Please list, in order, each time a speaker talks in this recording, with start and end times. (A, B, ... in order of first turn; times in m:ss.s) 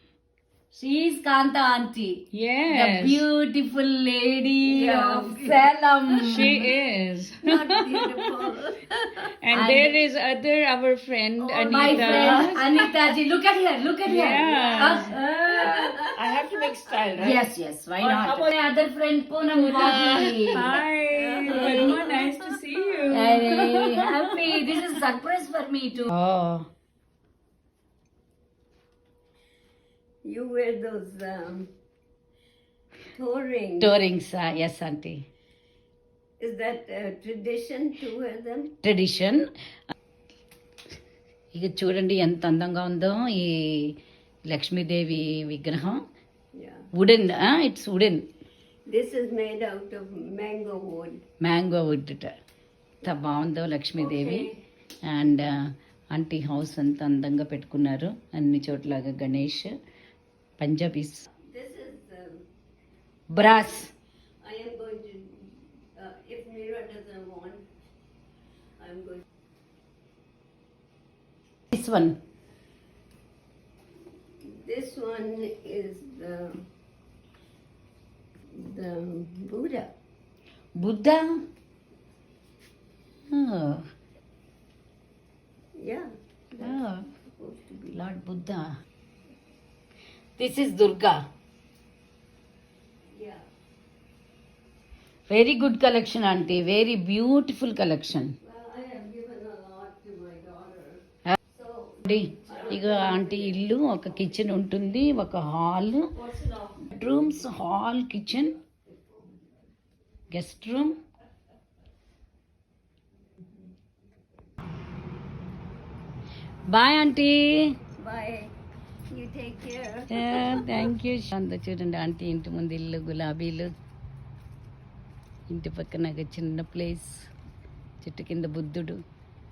0:00.7-0:06.7 A
0:02.3-0:03.2 B
0:04.7-0:05.6 C
0:06.1-0:08.2 B
0:07.4-0:09.3 C
0:09.4-0:12.8 B
0:09.5-0:10.0 A
0:11.5-0:12.5 C
0:11.6-0:15.8 A
0:14.0-0:17.4 B
0:15.6-0:16.1 C
0:17.2-0:20.7 A
0:18.0-0:18.5 B
0:19.4-0:24.2 B
0:21.1-0:22.4 C
0:23.1-0:26.7 A
0:30.2-0:31.7 C
0:33.1-0:33.9 C
0:33.8-0:35.2 A
0:36.4-0:38.7 C
0:38.8-0:39.4 A
0:41.5-0:43.9 A
0:44.4-0:46.0 A
0:46.5-0:46.8 C
0:46.9-0:48.2 A
0:48.9-0:51.2 C
0:51.4-0:52.3 A
0:53.0-0:54.5 A
0:54.0-0:54.6 C
0:55.1-0:59.7 A
1:00.6-1:01.3 A
1:01.3-1:02.4 C
1:03.3-1:03.9 A
1:04.4-1:07.6 C
1:08.8-1:09.2 C
1:11.7-1:12.2 A
1:14.4-1:16.6 C
1:18.5-1:19.9 C
1:20.8-1:21.2 A
1:23.3-1:23.8 A
1:25.8-1:26.8 C
1:26.6-1:27.1 A
1:27.4-1:28.0 C
1:27.9-1:28.7 A
1:30.4-1:31.2 A
1:33.1-1:33.4 C
1:35.3-1:38.4 A
1:38.4-1:43.7 C
1:42.1-1:46.1 A
1:46.2-1:46.9 C
1:46.8-1:48.5 A
1:50.3-1:51.0 A
1:56.7-1:57.7 A
1:58.0-1:58.5 C
1:59.1-2:00.9 C
2:00.1-2:03.7 A
2:05.5-2:07.2 A
2:08.0-2:09.0 A